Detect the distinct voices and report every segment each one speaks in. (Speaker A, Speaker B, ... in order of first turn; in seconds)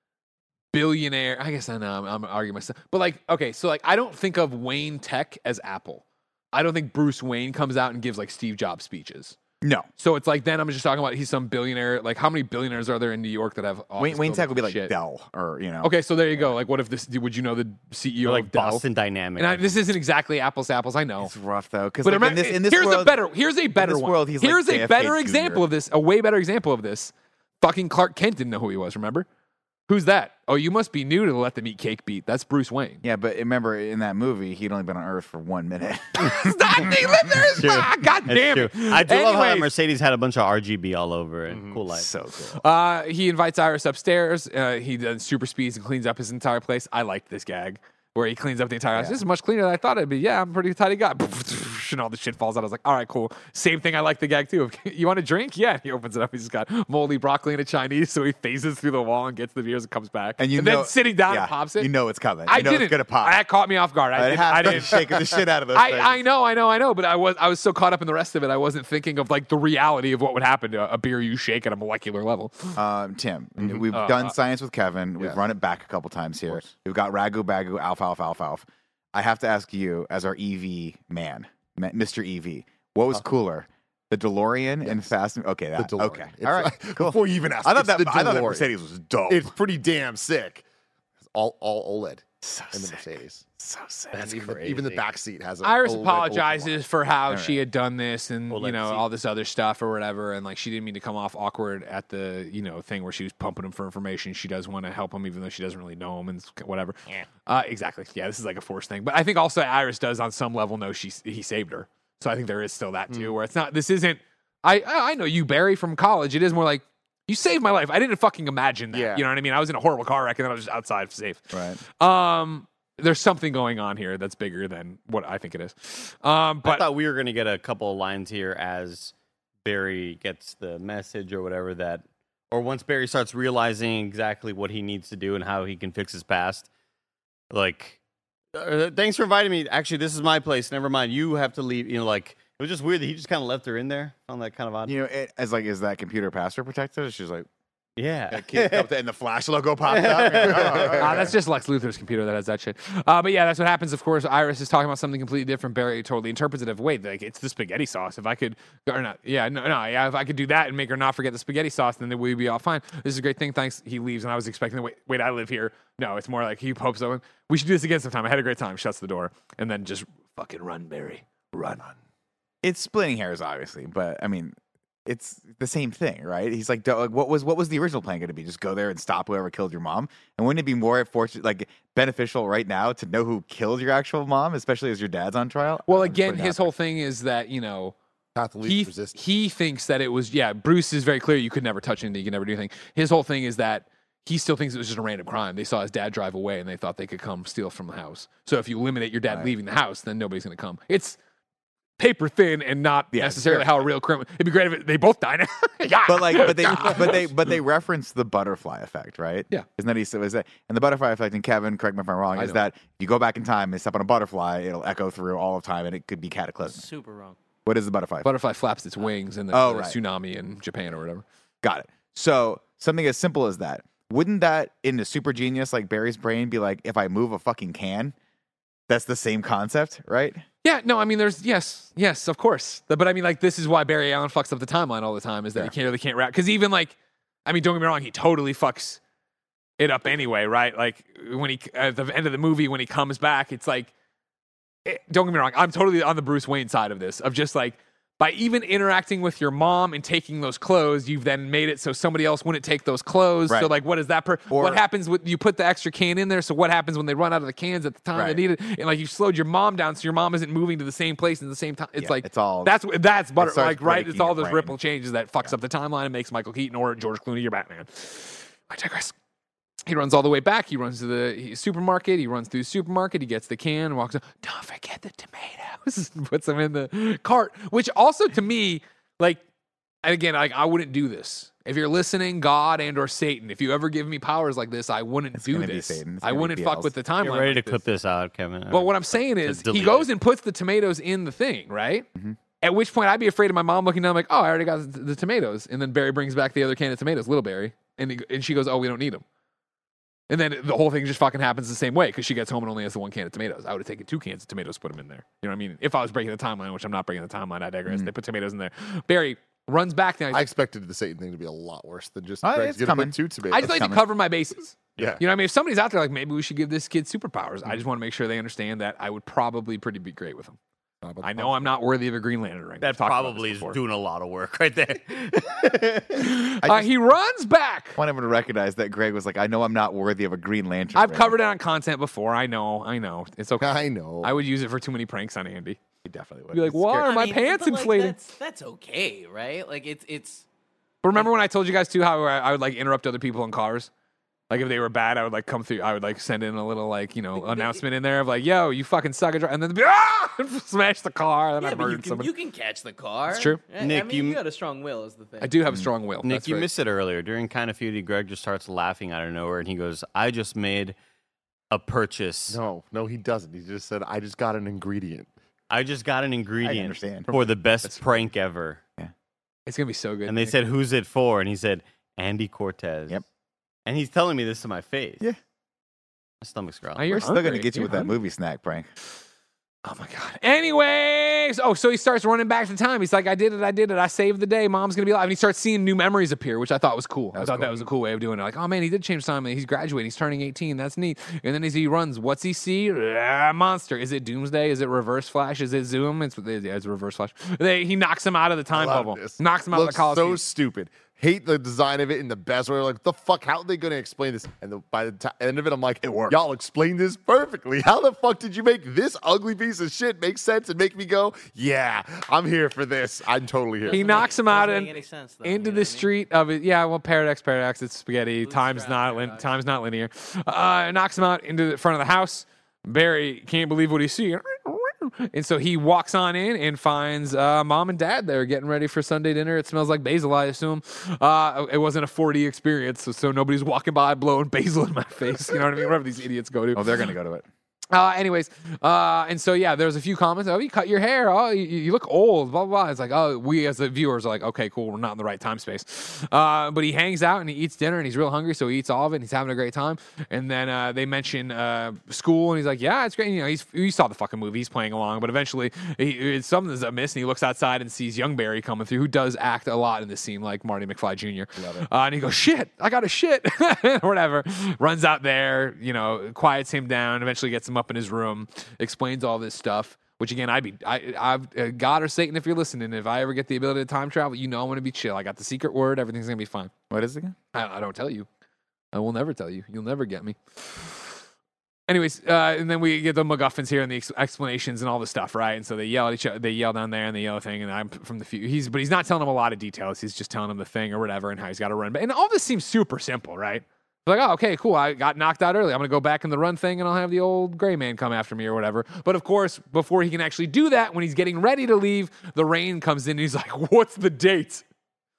Speaker A: 0.7-9.4, 10.0-14.9, 15.8-18.9, 19.4-21.3, 22.0-29.3, 29.9-33.0, 36.2-39.7, 42.6-61.9, 62.5-72.8, 73.9-74.3, 95.6-126.8, 151.0-172.0, 185.9-187.9, 188.7-201.2, 202.0-207.3, 212.4-212.6, 218.2-221.2, 230.6-239.0, 239.8-243.9, 244.8-269.1, 269.9-279.4, 280.0-287.8, 288.7-292.1, 292.6-299.2, 300.3-310.5, 313.5-320.6, 321.2-323.8, 326.2-328.0, 330.9-333.7, 334.2-335.8, 336.5-338.2, 341.0-343.9, 344.5-352.3, 353.3-353.6, 355.4-356.7, 367.3-368.3, 369.7-370.6, 377.0-378.1, 379.9-400.4, 413.9-437.1, 437.9-476.7, 477.5-478.3, 478.9-481.2, 481.9-504.6
Speaker B: 9.6-9.9, 14.0-16.6, 21.2-23.2, 23.8-25.6, 33.0-37.6, 41.9-42.6, 48.9-49.2, 60.4-63.4, 64.1-66.2, 72.8-89.5, 92.4-95.0, 97.3-97.6, 121.5-121.8, 144.9-147.5, 148.3-151.3, 172.6-186.7, 199.3-199.5, 203.1-203.8, 206.1-216.9, 217.7-218.3, 219.5-220.0, 221.6-228.1, 228.9-230.4, 254.5-254.8, 258.1-258.4, 262.0-262.8, 263.4-264.8, 285.4-286.9, 312.4-314.0, 326.6-326.9, 328.0-331.6, 336.1-337.1, 366.6-367.3, 377.1-378.9, 387.3-387.9, 406.0-406.4, 436.7-437.5, 461.6-461.9, 476.9-477.4
Speaker C: 18.2-19.8, 37.6-42.1, 98.5-99.0, 126.6-129.1, 129.6-136.7, 137.5-138.0, 138.6-144.9, 148.0-148.9, 149.9-150.9, 287.2-290.1, 322.8-326.3, 353.8-354.4, 356.2-360.9, 361.7-362.6, 365.7-368.8, 370.3-373.2, 373.9-375.2, 376.4-377.1
Speaker D: 41.5-41.8, 84.8-85.1, 85.8-88.7, 89.3-90.6, 91.3-93.4, 94.1-96.8, 113.1-113.3, 118.9-119.2, 150.4-151.3, 188.4-189.2, 310.3-313.8, 321.0-321.7, 333.6-334.4, 362.5-365.3, 398.7-414.3
Speaker E: 216.7-217.4, 336.9-340.5, 347.3-347.8, 351.6-355.6, 413.9-416.1, 418.4-419.5